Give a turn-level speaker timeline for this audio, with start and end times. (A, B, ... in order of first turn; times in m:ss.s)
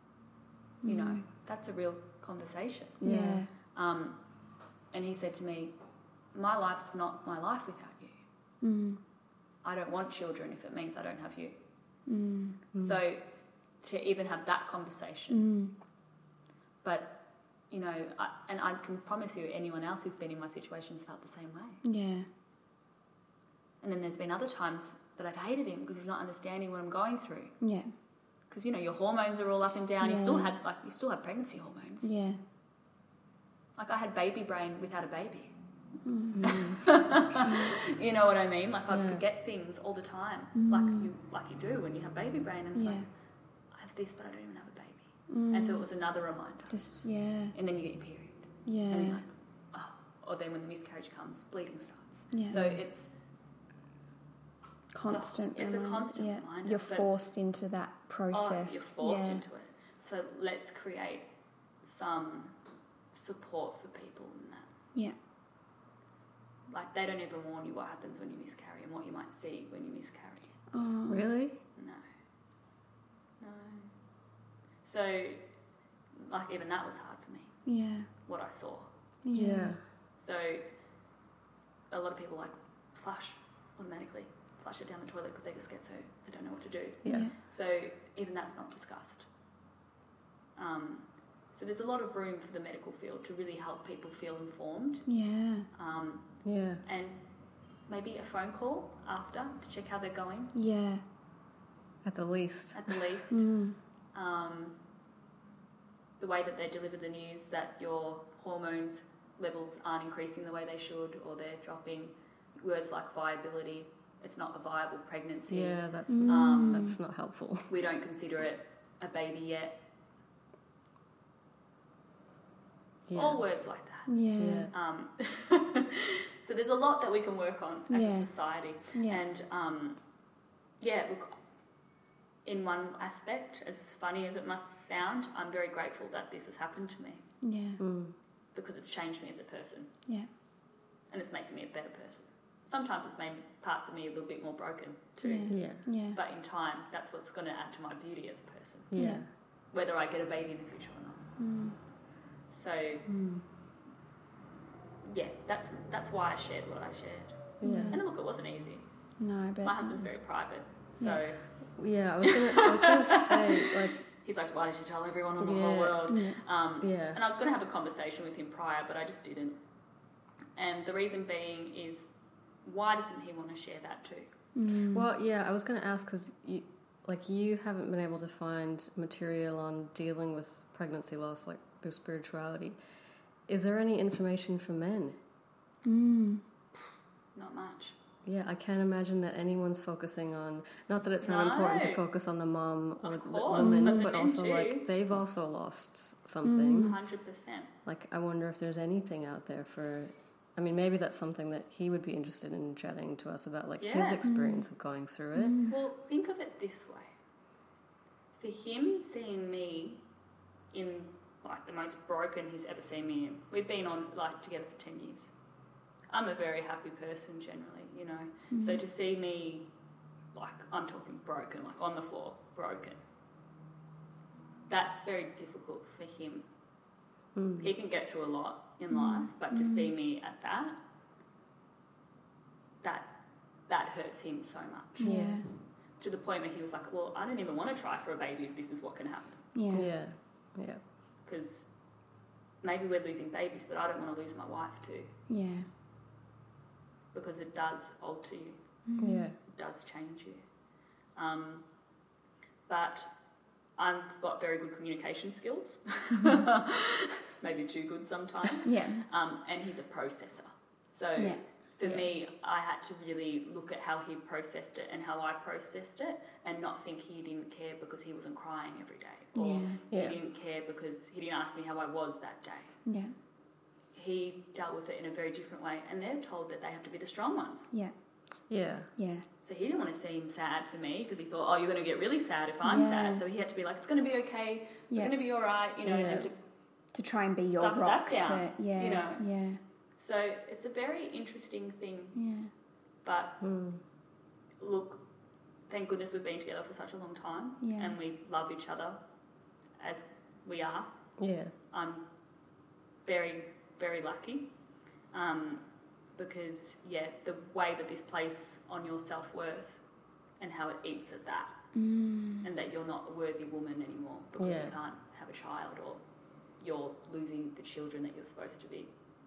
0:00.8-0:03.0 A
0:00.8-0:01.2 B
0:03.0-0:03.4 C
0:03.0-0:03.5 B
0:03.7-0:04.2 A
0:04.9-0:05.7 A
0:06.3-0:08.2 A
0:08.6-0:09.0 B
0:09.6-0:11.6 A
0:12.1-0:12.6 B
0:12.8-0:13.2 A
0:13.8-0:15.4 A
0:15.3-0:15.8 B
0:16.8-0:21.8 A
0:21.8-0:22.3 B
0:23.8-0:27.6 A
0:27.6-0:27.9 B
0:28.5-0:32.1 A
0:30.0-0:30.5 B
0:32.0-0:32.4 B
0:33.8-0:35.6 A
0:36.0-0:37.8 B
0:36.4-0:36.8 C
0:36.4-0:43.0 A
0:38.9-0:39.2 C
0:40.6-0:41.1 B
0:42.8-0:43.1 B
0:43.7-0:46.8 A
0:45.3-0:45.9 B
0:46.7-0:47.6 B
0:47.5-0:53.1 A
0:48.6-0:49.2 B
0:52.3-0:52.8 B
0:54.9-0:59.4 B
0:55.0-0:57.1 A
0:58.3-1:01.3 A
1:01.8-1:02.6 A
1:03.1-1:04.7 A
1:06.7-1:10.5 A
1:10.7-1:11.3 B
1:11.1-1:11.6 C
1:11.8-1:12.0 A
1:13.4-1:13.9 A
1:14.8-1:15.4 A
1:16.2-1:17.6 A
1:17.7-1:18.1 B
1:18.3-1:18.9 A
1:19.2-1:19.8 B
1:19.3-1:19.8 C
1:20.2-1:20.7 A
1:21.9-1:29.3 A
1:27.0-1:27.3 C
1:27.0-1:27.4 B
1:30.6-1:35.0 A
1:35.1-1:35.7 B
1:35.7-1:36.3 A
1:36.4-1:36.8 C
1:36.8-1:37.2 A
1:37.9-1:40.5 A
1:40.5-1:41.0 B
1:42.0-1:43.1 C
1:42.7-1:43.5 A
1:43.3-1:43.8 B
1:44.1-1:44.8 A
1:46.2-1:56.9 A
1:55.5-1:57.7 C
1:56.1-1:57.0 B
1:57.7-1:59.8 A
2:03.1-2:03.4 C
2:03.1-2:04.2 A
2:04.1-2:04.7 B
2:04.4-2:04.7 C
2:04.7-2:10.0 A
2:07.9-2:08.3 B
2:08.8-2:09.2 B
2:10.8-2:11.4 A
2:12.4-2:17.2 A
2:17.4-2:17.8 B
2:17.8-2:18.2 C
2:18.5-2:19.9 A
2:21.1-2:28.9 A
2:25.2-2:26.2 B
2:25.5-2:25.8 C
2:28.9-2:29.3 C
2:29.0-2:29.3 B
2:29.7-2:31.3 A
2:31.4-2:31.8 B
2:32.5-2:33.0 A
2:33.1-2:33.4 C
2:35.0-2:38.9 A
2:37.6-2:38.0 C
2:37.6-2:38.0 B
2:39.2-2:40.1 B
2:39.6-2:41.5 A
2:41.7-2:44.1 C
2:42.2-2:49.6 A
2:45.4-2:46.2 C
2:46.1-2:46.4 B
2:46.8-2:47.2 C
2:50.6-2:52.1 A
2:52.6-2:54.3 A
2:54.6-2:55.1 B
2:54.9-3:02.8 C
3:03.5-3:05.2 C
3:05.8-3:06.4 B
3:07.4-3:08.0 A
3:08.2-3:17.0 C
3:11.2-3:12.0 A
3:13.0-3:14.9 A
3:13.6-3:14.1 B
3:16.4-3:17.0 B
3:16.8-3:17.7 A
3:17.8-3:25.6 C
3:23.8-3:24.3 A
3:24.2-3:24.7 B
3:25.4-3:25.8 B
3:25.7-3:27.1 A
3:28.3-3:30.0 A
3:30.7-3:35.3 A
3:36.1-3:39.7 A
3:38.5-3:38.8 B
3:40.3-3:43.0 A
3:44.7-3:46.5 A
3:47.4-3:47.7 C
3:47.6-3:50.8 A
3:48.9-3:49.9 B
3:52.8-3:53.2 A
3:53.7-3:55.2 A
3:55.0-3:55.5 B
3:55.0-3:55.4 C
3:56.0-3:59.4 A
3:59.5-3:59.9 B
3:59.7-4:00.8 C
4:01.2-4:01.7 A
4:02.6-4:05.1 A
4:05.3-4:05.7 B
4:07.1-4:08.6 A
4:08.9-4:09.3 B
4:09.0-4:09.4 C
4:09.4-4:10.4 A
4:11.2-4:11.7 A
4:12.7-4:13.1 A
4:13.8-4:32.8 A
4:18.6-4:19.0 B
4:21.2-4:21.4 B
4:21.8-4:22.1 C
4:29.4-4:29.8 B
4:29.9-4:30.2 C
4:32.8-4:33.1 B
4:33.9-4:37.7 A
4:38.5-4:38.9 C
4:39.0-4:39.2 B
4:39.4-4:46.4 A
4:42.6-4:43.2 B
4:45.8-4:46.3 C
4:46.9-4:49.6 B
4:47.4-4:49.2 A
4:50.0-4:52.2 A
4:52.2-4:52.5 B
4:53.0-4:53.4 A
4:53.4-4:53.8 C
4:54.6-4:55.0 A
4:55.7-4:59.0 A
4:57.6-4:58.0 B
4:59.8-5:00.9 A
5:01.2-5:01.5 C
5:01.7-5:02.0 A
5:03.0-5:04.5 A
5:05.1-5:05.6 A
5:06.2-5:09.8 A
5:10.4-5:11.6 A
5:11.7-5:12.5 B
5:12.4-5:16.0 A
5:14.4-5:14.8 C
5:16.6-5:18.9 A